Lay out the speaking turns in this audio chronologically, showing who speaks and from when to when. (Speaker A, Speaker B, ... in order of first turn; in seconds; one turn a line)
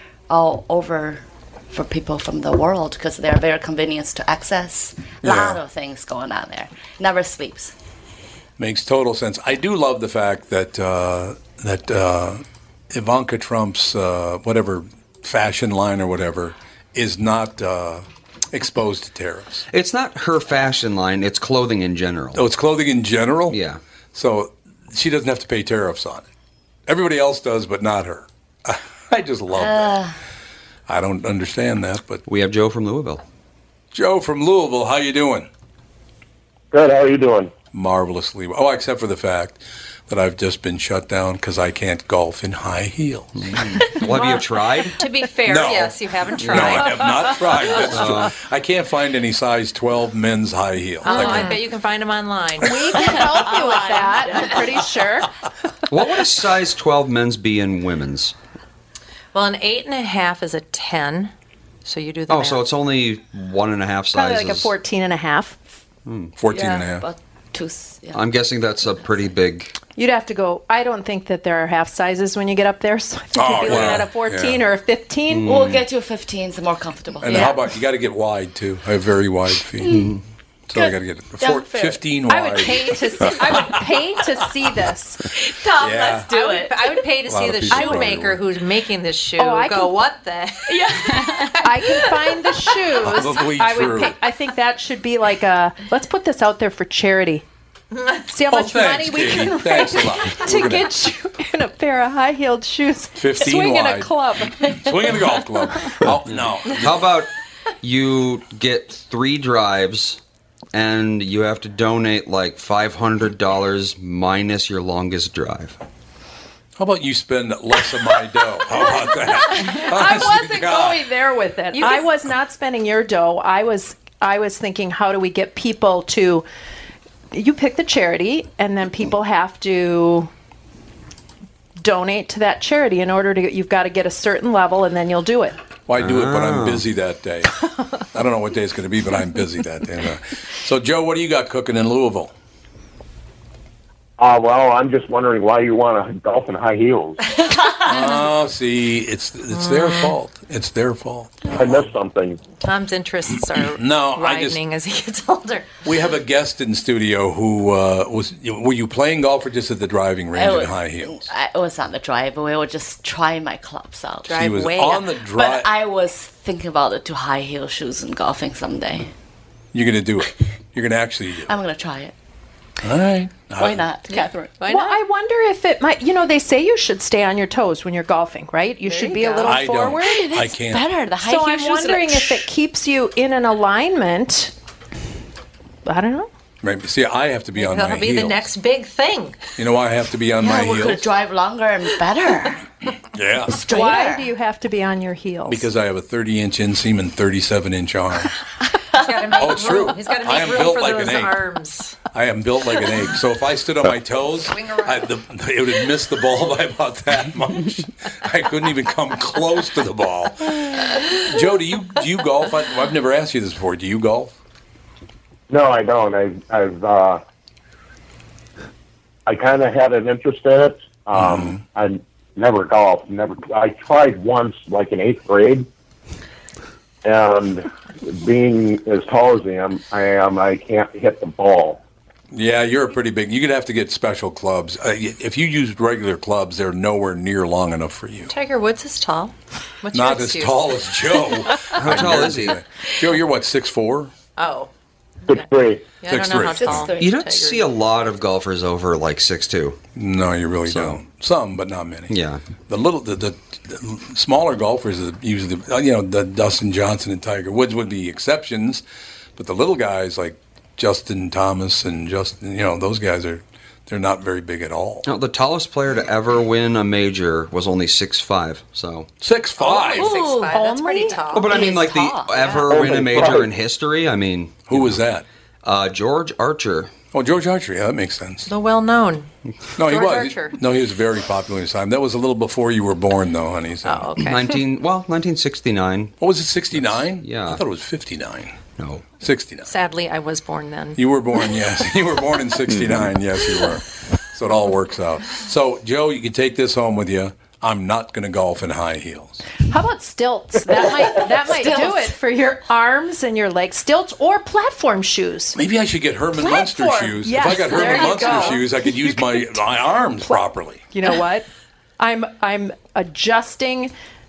Speaker A: 0.3-7.7
Speaker B: 5.2-5.6
Speaker B: 8.6-19.6
Speaker C: 19.7-22.4
Speaker B: 22.3-23.6
Speaker C: 23.5-23.8
Speaker B: 24.1-26.2
Speaker B: 26.9-30.0
Speaker A: 29.5-30.2
Speaker B: 30.9-32.2
Speaker C: 32.2-33.2
Speaker B: 33.9-35.5
Speaker D: 36.7-37.5
Speaker B: 37.7-43.3
Speaker C: 43.4-45.0
Speaker E: 43.8-48.0
Speaker B: 45.4-51.6
Speaker C: 46.4-46.8
Speaker C: 47.8-48.3
Speaker E: 51.0-53.0
Speaker F: 51.1-51.4
Speaker F: 52.6-55.3
Speaker A: 52.9-54.9
Speaker C: 55.9-58.3
Speaker E: 59.3-61.3
Speaker E: 61.8-62.7
Speaker C: 62.3-64.7
Speaker F: 64.1-65.6
Speaker C: 66.0-66.3
Speaker B: 66.4-67.0
Speaker A: 66.5-68.2
Speaker C: 68.1-69.7
Speaker F: 70.0-75.5
Speaker B: 73.3-74.6
Speaker C: 75.3-75.8
Speaker A: 75.4-77.7
Speaker B: 77.2-80.1
Speaker A: 79.8-80.1
Speaker B: 80.7-83.8
Speaker A: 80.7-82.0
Speaker F: 82.3-85.3
Speaker A: 85.3-87.0
Speaker B: 85.8-86.3
Speaker E: 86.3-92.2
Speaker B: 87.2-88.4
Speaker F: 87.7-88.0
Speaker F: 89.4-90.0
Speaker A: 90.7-92.0
Speaker F: 91.6-97.4
Speaker B: 93.0-94.2
Speaker E: 97.9-98.3
Speaker F: 98.3-105.2
Speaker B: 98.5-100.9
Speaker B: 103.2-107.1
Speaker C: 106.2-107.3
Speaker C: 107.8-110.2
Speaker C: 110.7-115.8
Speaker B: 116.8-121.0
Speaker F: 118.9-126.4
Speaker E: 121.7-122.1
Speaker F: 127.3-130.3
Speaker F: 131.8-135.6
Speaker B: 135.9-137.6
Speaker C: 136.0-136.8
Speaker B: 138.1-142.3
Speaker D: 144.2-147.2
Speaker A: 147.5-148.1
Speaker B: 147.8-151.9
Speaker E: 149.5-150.2
Speaker D: 151.5-152.4
Speaker E: 152.6-155.7
Speaker B: 153.6-154.6
Speaker B: 155.8-161.3
Speaker A: 160.3-169.1
Speaker E: 164.3-165.1
Speaker B: 164.3-165.7
Speaker B: 169.7-171.5
Speaker A: 171.5-172.1
Speaker B: 172.8-173.9
Speaker A: 173.6-174.6
Speaker E: 174.1-175.0
Speaker F: 174.6-180.2
Speaker E: 178.8-179.5
Speaker B: 179.4-180.9
Speaker A: 180.0-182.5
Speaker F: 181.2-184.5
Speaker F: 185.8-186.3
Speaker B: 186.6-188.5
Speaker E: 187.6-189.4
Speaker B: 189.6-191.1
Speaker A: 190.4-192.6
Speaker B: 193.1-193.6
Speaker A: 193.5-194.3
Speaker F: 193.6-195.7
Speaker B: 195.5-198.3
Speaker E: 199.0-202.0
Speaker B: 199.3-201.4
Speaker B: 202.1-214.3
Speaker E: 204.5-205.1
Speaker D: 215.5-217.2
Speaker D: 219.3-225.7
Speaker B: 221.1-221.6
Speaker D: 227.0-231.8
Speaker B: 232.3-238.3
Speaker E: 238.3-240.7
Speaker B: 239.9-244.1
Speaker C: 241.7-242.6
Speaker E: 244.4-244.7
Speaker D: 245.3-245.9
Speaker E: 245.3-247.7
Speaker B: 246.1-246.9
Speaker A: 246.4-247.1
Speaker C: 247.0-249.8
Speaker B: 249.9-258.8
Speaker C: 250.7-251.0
Speaker C: 252.1-252.4
Speaker B: 259.4-265.1
Speaker C: 265.0-269.1
Speaker B: 269.2-270.2
Speaker E: 269.6-271.8
Speaker A: 269.8-270.6
Speaker F: 270.5-271.2
Speaker C: 271.3-275.0
Speaker A: 271.3-272.7
Speaker E: 272.3-272.6
Speaker D: 272.6-273.5
Speaker B: 274.6-275.2
Speaker C: 275.6-276.9
Speaker B: 277.1-278.5
Speaker E: 278.4-279.3
Speaker B: 279.8-284.2
Speaker E: 279.8-280.6
Speaker E: 283.8-284.6
Speaker C: 284.2-286.1
Speaker B: 286.2-288.6
Speaker C: 286.7-287.6
Speaker C: 288.8-289.1
Speaker B: 289.2-289.7
Speaker E: 289.6-291.0
Speaker B: 290.9-299.4
Speaker F: 299.6-305.6
Speaker A: 301.4-302.1
Speaker B: 305.5-310.8
Speaker F: 306.3-309.4
Speaker F: 310.2-311.5
Speaker F: 312.0-313.9